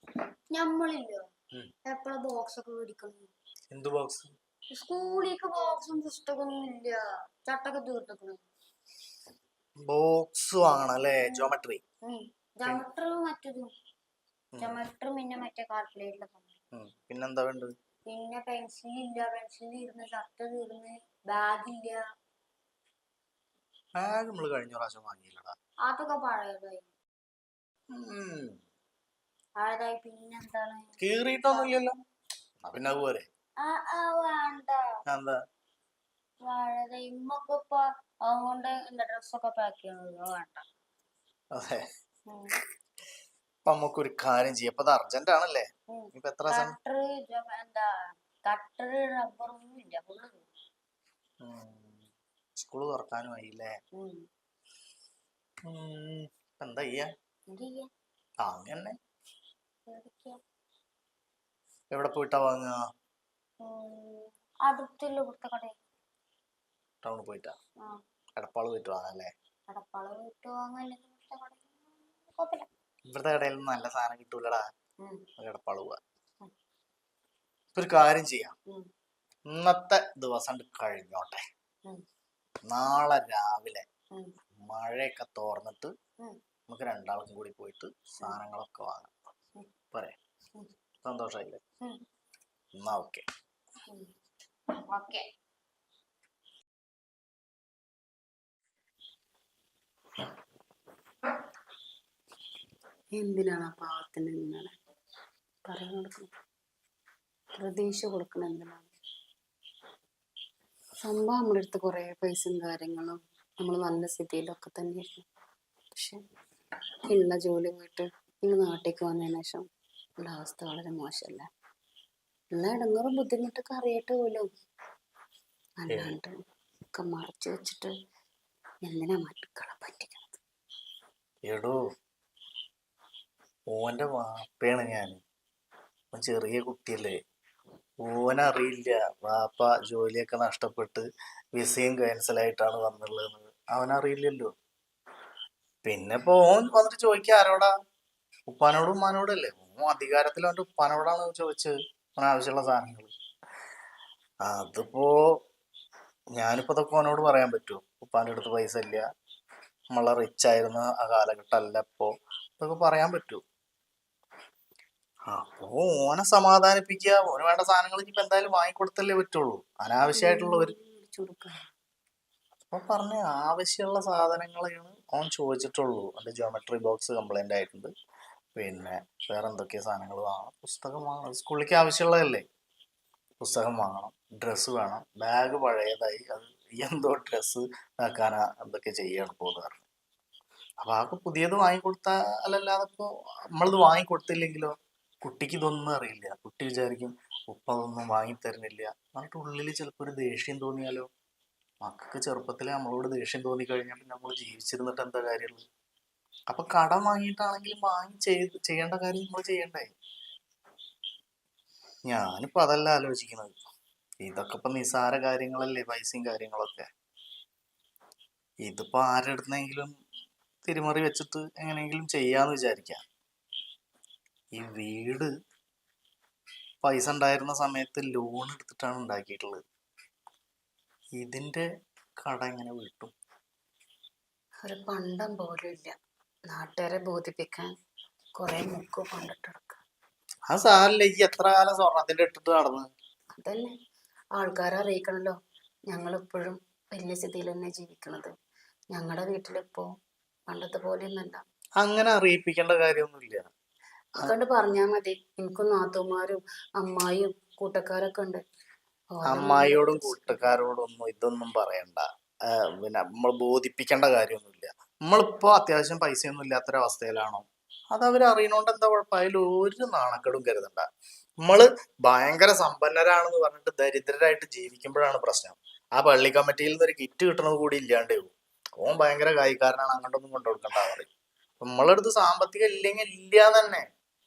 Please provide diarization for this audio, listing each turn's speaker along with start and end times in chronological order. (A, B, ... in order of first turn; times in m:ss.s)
0:00.5-0:01.2 A
0:01.9-0:03.3 A
0:03.7-0:04.3 B
0:04.7-0:08.4 A
0:09.9-0:11.8 B
0:12.0-0:13.7 A
0:14.6-0:16.5 A
0:16.7-0:17.7 B
0:18.1-0:22.0 A
0:24.0-0:25.6 B
0:25.9-0:26.9 A
0:27.9-0:28.6 B
0:29.6-0:31.7 A
0:31.0-0:32.0 B
0:32.7-0:33.3 B
0:33.6-0:34.8 A
0:35.1-0:35.4 B
0:36.4-0:40.6 A
0:41.5-0:41.8 B
0:42.3-0:42.6 A
0:43.6-0:46.8 B
0:45.9-0:47.9 A
0:48.4-0:50.5 A
0:51.4-0:52.0 B
0:52.6-0:53.7 B
0:55.7-0:57.1 B
0:57.5-0:57.9 A
0:58.4-0:59.0 B
0:59.9-1:00.4 A
1:01.9-1:02.8 B
1:03.6-1:05.8 A
1:07.0-1:07.6 B
1:08.4-1:09.3 B
1:09.7-1:12.7 A
1:13.1-1:14.6 B
1:15.4-1:16.0 B
1:17.7-1:18.6 B
1:19.5-1:21.4 B
1:22.7-1:23.8 B
1:24.6-1:25.9 B
1:26.7-1:29.1 B
1:31.0-1:31.6 B
1:32.8-1:33.2 B
1:34.7-1:35.2 A
1:43.2-1:44.7 C
1:45.6-1:46.3 C
1:47.6-1:48.9 C
1:51.0-1:55.2 C
1:55.9-1:56.2 C
1:57.1-1:59.7 C
2:00.2-2:01.5 C
2:02.5-2:04.4 C
2:05.8-2:06.3 C
2:05.9-2:06.1 B
2:06.9-2:07.9 C
2:08.8-2:10.4 C
2:11.4-2:11.8 B
2:13.7-2:15.2 B
2:16.1-2:17.1 B
2:18.0-2:24.5 B
2:25.8-2:27.7 B
2:28.5-2:33.1 B
2:34.4-2:35.2 B
2:36.4-2:39.0 B
2:39.9-2:43.4 B
2:45.3-2:50.7 B
2:50.1-2:51.6 C
2:52.7-2:57.9 B
2:58.6-3:02.4 B
3:03.4-3:09.8 B
3:10.8-3:14.7 B
3:15.2-3:21.1 B
3:21.8-3:25.6 B
3:26.5-3:29.9 B
3:32.1-3:33.6 B
3:34.2-3:36.8 B
3:38.6-3:39.9 B
3:40.6-3:43.0 B
3:44.6-3:45.3 B
3:46.8-3:49.6 B
3:51.2-3:51.6 B
3:52.2-3:53.1 B
3:54.6-3:55.9 C
3:56.5-3:57.7 C
3:58.4-3:59.8 C
4:00.5-4:02.9 B
4:03.4-4:03.7 C
4:04.4-4:05.4 C
4:05.9-4:08.3 C
4:08.9-4:09.9 C
4:10.5-4:11.4 C
4:11.8-4:13.5 B
4:14.2-4:18.4 C
4:19.2-4:20.6 C
4:19.3-4:22.0 B
4:22.8-4:30.9 B
4:31.4-4:41.1 B
4:41.6-4:43.8 B